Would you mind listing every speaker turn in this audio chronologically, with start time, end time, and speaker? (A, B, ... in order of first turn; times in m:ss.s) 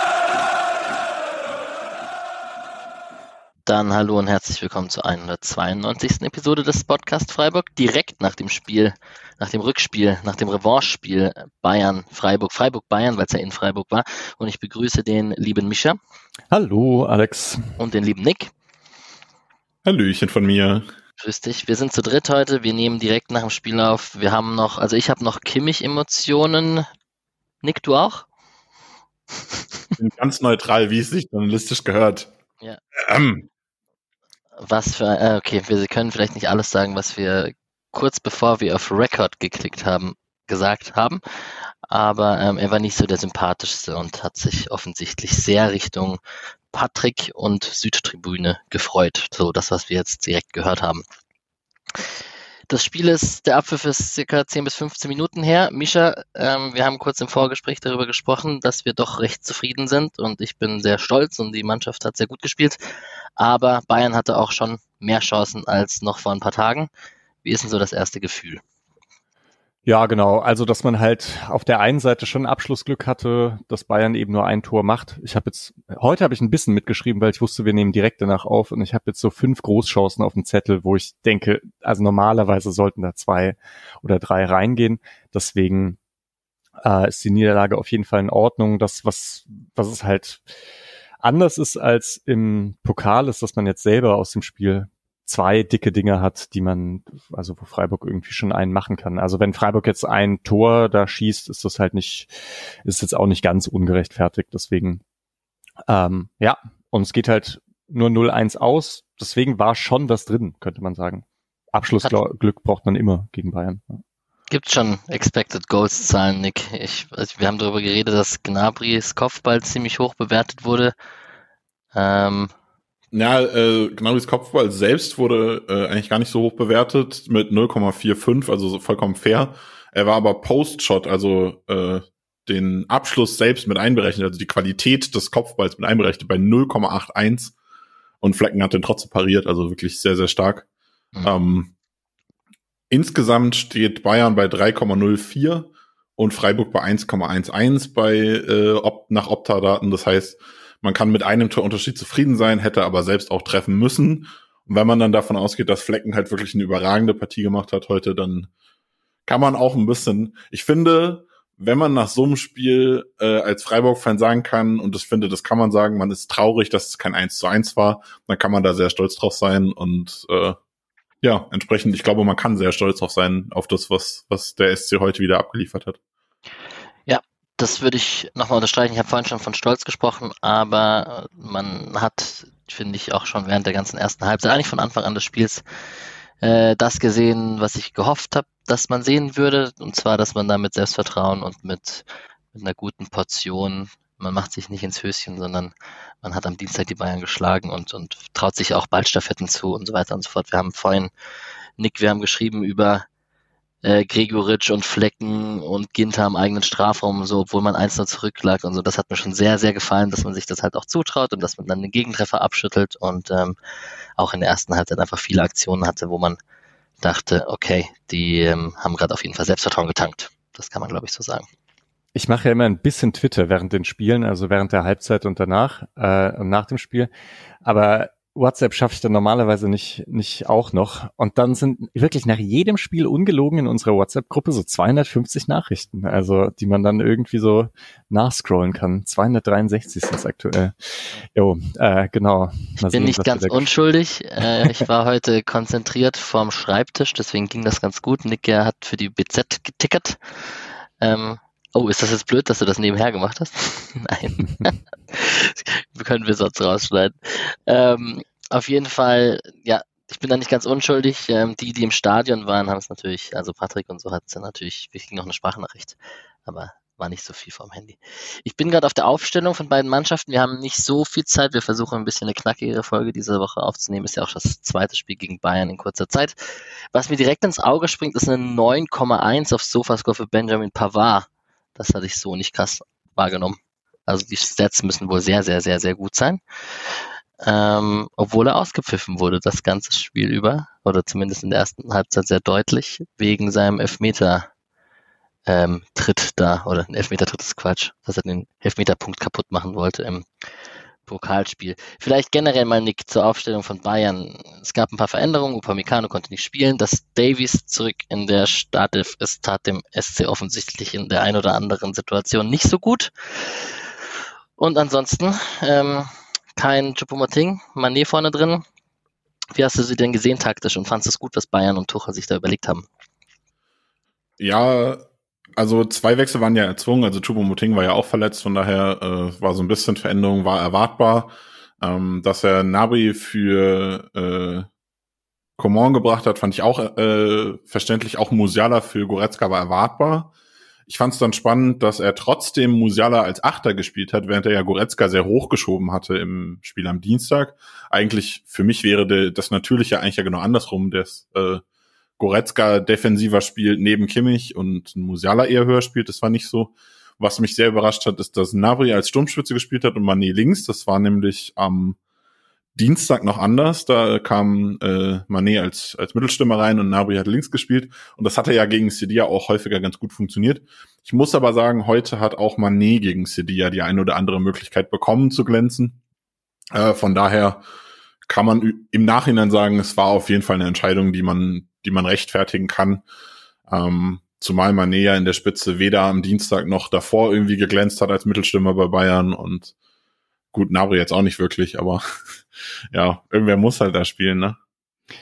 0:03.7-0:16.0 A
0:16.5-0:17.8 B
0:17.8-0:18.5 A
0:19.8-0:20.9 C
0:21.2-0:26.9 A
0:27.6-0:28.3 A
0:30.0-0:32.3 C
0:33.0-0:33.5 C
0:34.6-0:41.2 A
0:41.9-0:46.2 A
0:46.7-0:51.0 A
0:52.7-1:02.8 A
1:03.4-1:06.9 A
1:07.4-1:08.6 A
1:09.9-1:26.0 B
1:26.8-1:30.5 B
1:31.2-1:42.3 B
1:42.8-1:45.0 B
1:45.9-1:54.0 B
1:54.5-2:01.0 A
2:01.9-2:02.5 A
2:03.1-2:17.6 C
2:18.2-2:20.7 C
2:21.2-2:21.7 C
2:22.9-2:38.5 C
2:39.3-2:50.6 C
2:51.2-2:56.0 C
2:57.1-3:05.6 A
3:06.4-3:21.1 A
3:21.8-3:23.1 A
3:23.8-3:33.6 A
3:34.2-3:36.4 A
3:37.0-3:41.5 A
3:42.2-3:47.1 B
3:47.6-4:03.7 B
4:02.8-4:10.2 A
4:04.4-4:04.8 B
4:11.0-4:36.4 A
4:36.9-4:46.4 A
4:47.4-4:54.5 A
4:55.5-5:00.3 A
5:01.1-5:13.8 A
5:14.6-5:18.6 A
5:19.5-5:22.9 A
5:24.4-5:34.7 C
5:35.6-5:40.3 C
5:40.9-5:51.6 C
5:52.2-6:02.0 C
6:02.8-6:16.0 C
6:16.7-6:17.6 C
6:18.3-6:23.0 C
6:23.7-6:29.7 C
6:30.5-6:34.6 C